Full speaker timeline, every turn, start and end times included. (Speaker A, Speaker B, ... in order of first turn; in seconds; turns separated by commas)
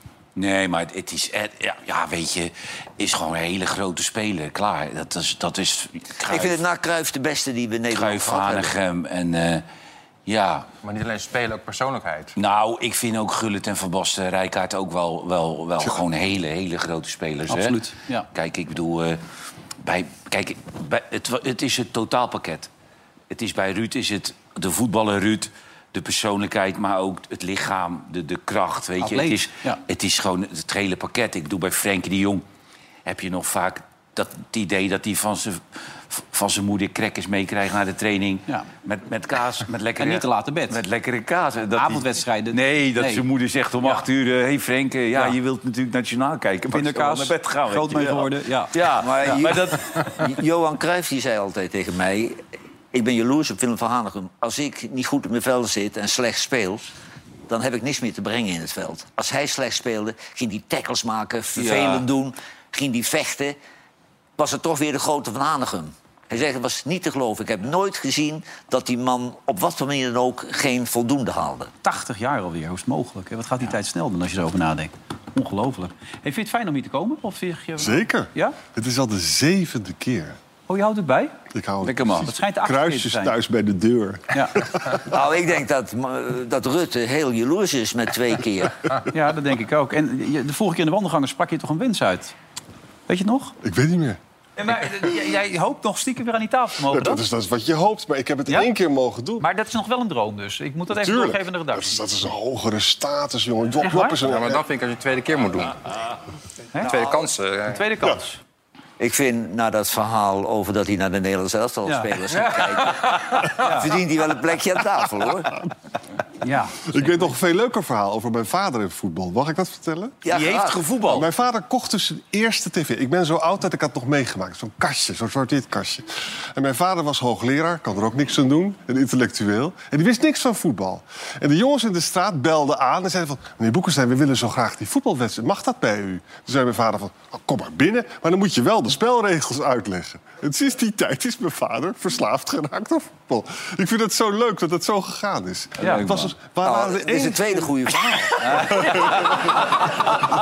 Speaker A: 0.3-6.6, Speaker B: 6.3-8.7, Speaker A: 7.9-9.7, Speaker A: 10.2-10.7, Speaker C: 10.8-12.3, Speaker A: 12.4-17.8, Speaker D: 17.5-18.3, Speaker A: 18.3-19.2, Speaker A: 19.8-22.7, Speaker A: 23.3-32.4, Speaker D: 29.0-29.8, Speaker A: 33.0-50.1, Speaker D: 40.0-40.8, Speaker D: 41.7-43.2, Speaker D: 46.7-49.4, Speaker B: 49.0-52.4, Speaker B: 52.9-56.9, Speaker B: 57.5-63.6, Speaker A: 61.5-62.0, Speaker B: 64.4-71.7, Speaker D: 71.8-78.5, Speaker E: 77.8-80.4, Speaker D: 80.7-81.3, Speaker E: 81.5-85.0, Speaker A: 81.8-82.3, Speaker D: 82.2-83.3, Speaker B: 85.1-88.8, Speaker D: 89.1-92.3, Speaker D: 93.1-93.5, Speaker E: 93.6-94.2, Speaker D: 94.6-97.2, Speaker E: 96.9-99.5, Speaker D: 99.4-102.0, Speaker E: 100.9-104.6, Speaker C: 104.0-105.8, Speaker D: 106.7-108.4, Speaker C: 106.8-107.8, Speaker B: 109.0-115.6, Speaker D: 113.5-113.9, Speaker D: 116.4-117.3, Speaker E: 116.9-120.2, Speaker B: 120.2-120.9, Speaker A: 120.3-121.3, Speaker E: 121.1-147.7, Speaker D: 145.8-146.2, Speaker B: 146.6-148.7, Speaker D: 148.4-149.4, Speaker E: 148.5-149.2